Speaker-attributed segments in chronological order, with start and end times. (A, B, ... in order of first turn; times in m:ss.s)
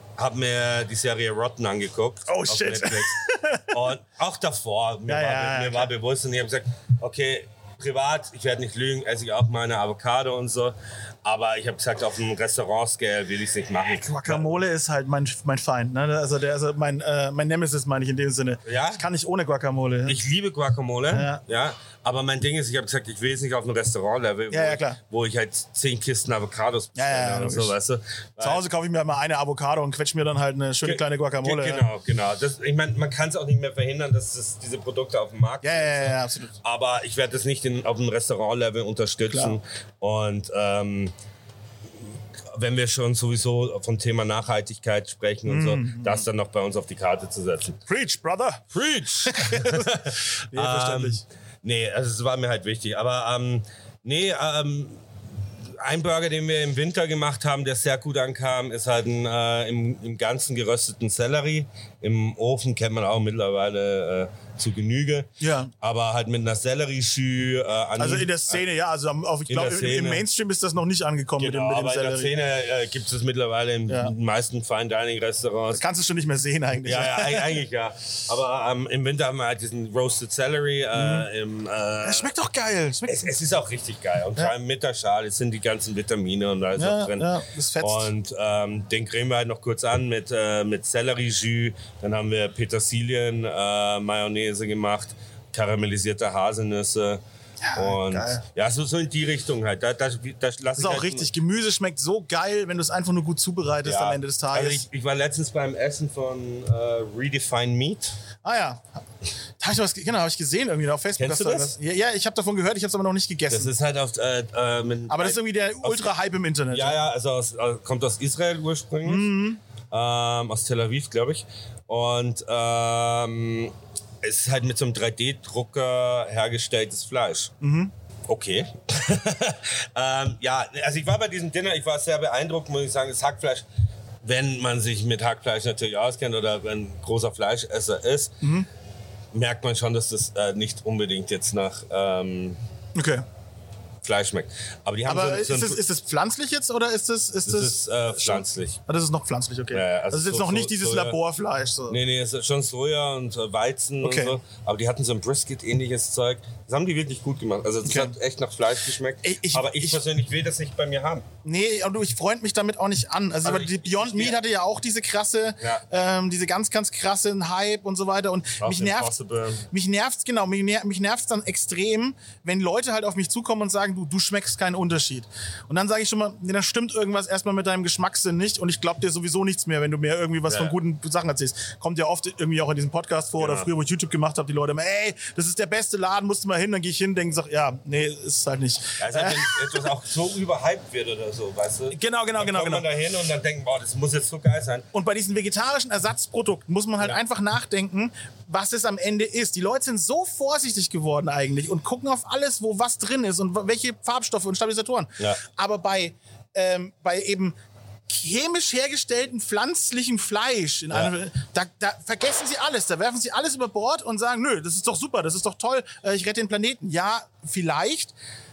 0:00.2-0:03.2 A
0:02.3-0:03.7 B
0:03.7-0:14.5 A
0:05.1-0:05.9 B
0:14.0-0:20.2 B
0:18.6-0:19.0 A
0:20.1-0:28.6 A
0:21.1-0:21.4 B
0:24.5-0:25.0 B
0:27.0-0:27.8 B
0:28.4-0:31.8 B
0:30.8-0:41.1 A
0:35.6-0:36.6 B
0:39.3-0:39.6 B
0:42.5-0:47.8 A
0:45.5-0:46.3 B
0:47.9-0:48.7 B
0:48.7-0:55.0 A
0:49.2-0:51.2 B
0:55.7-1:05.3 A
1:05.4-1:05.7 B
1:05.8-1:08.6 A
1:08.0-1:12.3 B
1:09.5-1:10.3 A
1:11.4-1:15.8 A
1:13.9-1:14.1 B
1:15.7-1:17.6 B
1:16.8-1:22.3 A
1:21.0-1:21.3 B
1:22.0-1:23.3 B
1:23.0-1:37.2 A
1:26.8-1:28.1 B
1:37.6-1:38.4 B
1:37.8-1:41.3 A
1:40.8-1:44.9 B
1:43.8-1:48.2 A
1:48.4-1:48.9 B
1:49.6-1:53.7 B
1:51.2-1:51.8 A
1:53.5-1:56.1 A
1:55.1-1:57.0 B
1:56.7-1:59.4 A
1:59.0-1:59.6 B
1:59.9-2:07.5 A
2:07.6-2:07.9 B
2:08.3-2:13.7 A
2:14.2-2:18.4 A
2:18.4-2:18.7 B
2:19.3-2:22.6 A
2:23.0-2:23.2 B
2:24.0-2:25.8 A
2:25.0-2:32.0 B
2:27.4-2:28.8 A
2:29.7-2:31.2 A
2:31.9-2:41.3 A
2:34.0-2:34.4 B
2:37.9-2:38.1 B
2:39.2-2:40.0 B
2:41.4-2:49.1 B
2:43.4-2:44.4 A
2:48.6-2:49.6 A
2:49.7-3:09.6 B
3:00.5-3:00.8 A
3:03.4-3:03.7 A
3:09.0-3:14.9 A
3:11.9-3:12.8 B
3:14.9-3:27.6 B
3:28.1-3:38.2 B